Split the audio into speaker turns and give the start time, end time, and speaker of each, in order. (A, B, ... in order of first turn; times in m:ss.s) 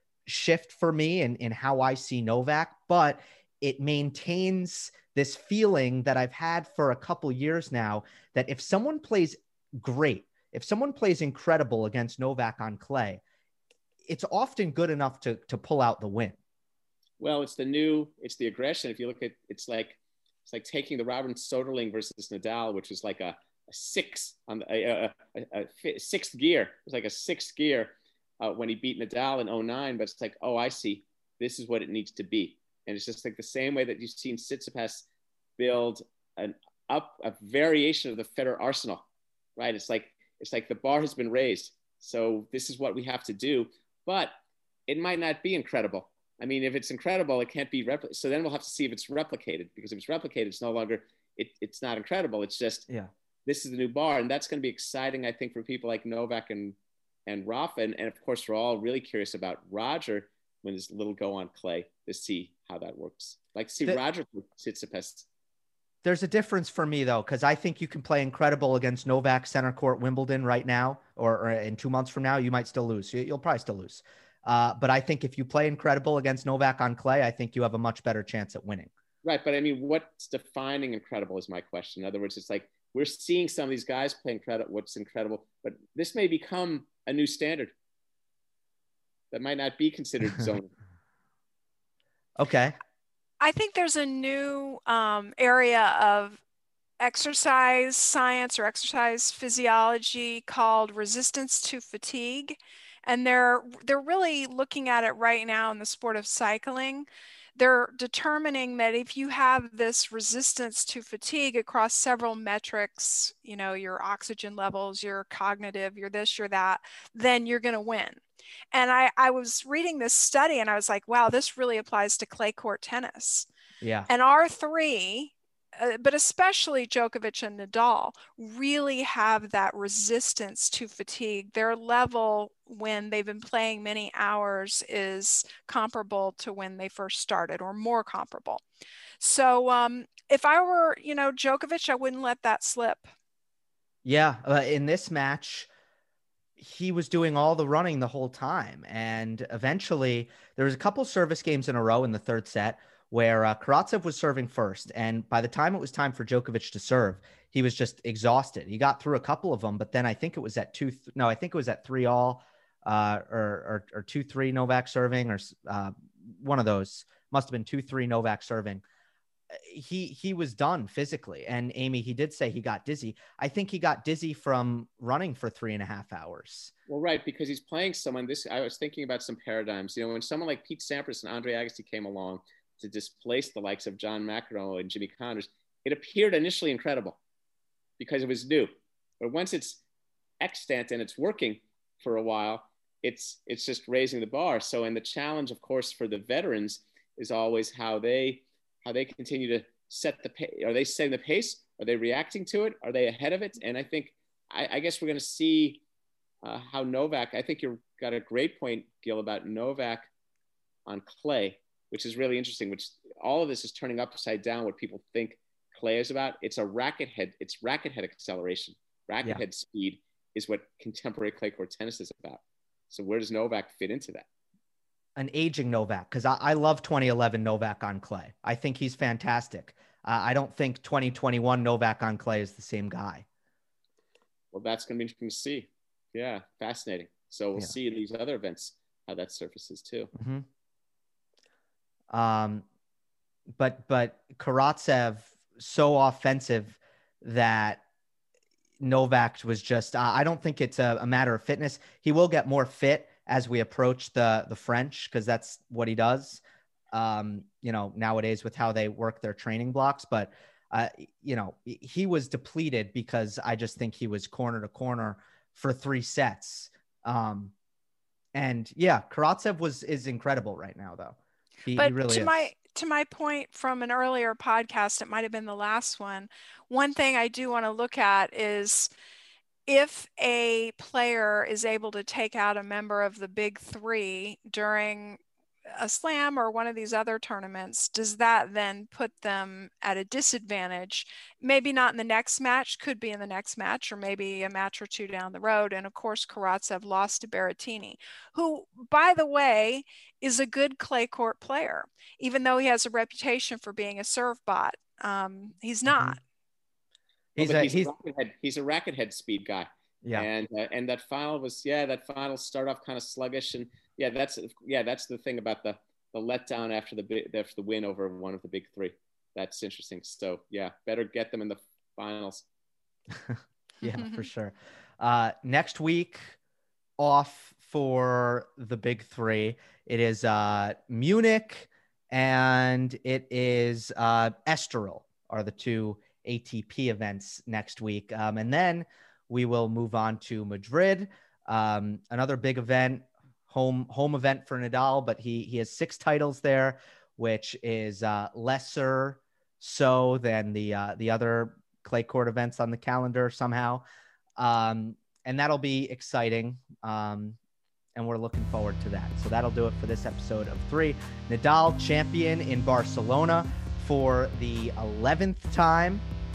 0:00.2-0:13.2 A
0:14.0-0:16.4 A
0:17.2-0:35.0 B
0:35.6-0:39.0 B
0:39.6-0:44.3 B
0:44.9-0:52.9 B
0:53.4-1:05.3 B
1:06.0-1:18.9 A
1:19.2-1:27.7 B
1:29.3-1:30.7 B
1:32.4-1:32.8 A
1:33.4-1:36.4 C
1:37.0-1:58.2 C
1:58.7-2:03.5 C
2:03.8-2:04.1 A
2:04.1-2:18.6 C
2:19.2-2:23.1 C
2:24.0-2:25.7 A
2:26.6-2:48.8 A
2:49.5-2:56.7 A
2:56.9-3:07.2 B
3:08.0-3:09.8 B
3:10.4-3:25.8 B
3:26.4-3:30.1 B
3:30.8-3:44.2 B
3:45.2-3:53.2 A
3:54.5-4:00.1 B
4:00.1-4:00.4 A
4:02.1-4:02.6 A
4:03.5-4:07.8 A
4:08.8-4:27.5 A
4:28.3-4:32.5 A
4:31.8-4:38.9 C
4:39.7-4:45.2 C
4:45.7-5:06.2 C
5:05.9-5:06.2 A
5:07.4-5:07.9 A
5:07.4-5:22.4 B
5:10.0-5:10.3 A
5:23.1-5:26.4 A
5:23.9-5:24.2 C
5:27.0-5:53.8 A
5:54.4-5:57.4 A
5:57.9-6:06.0 A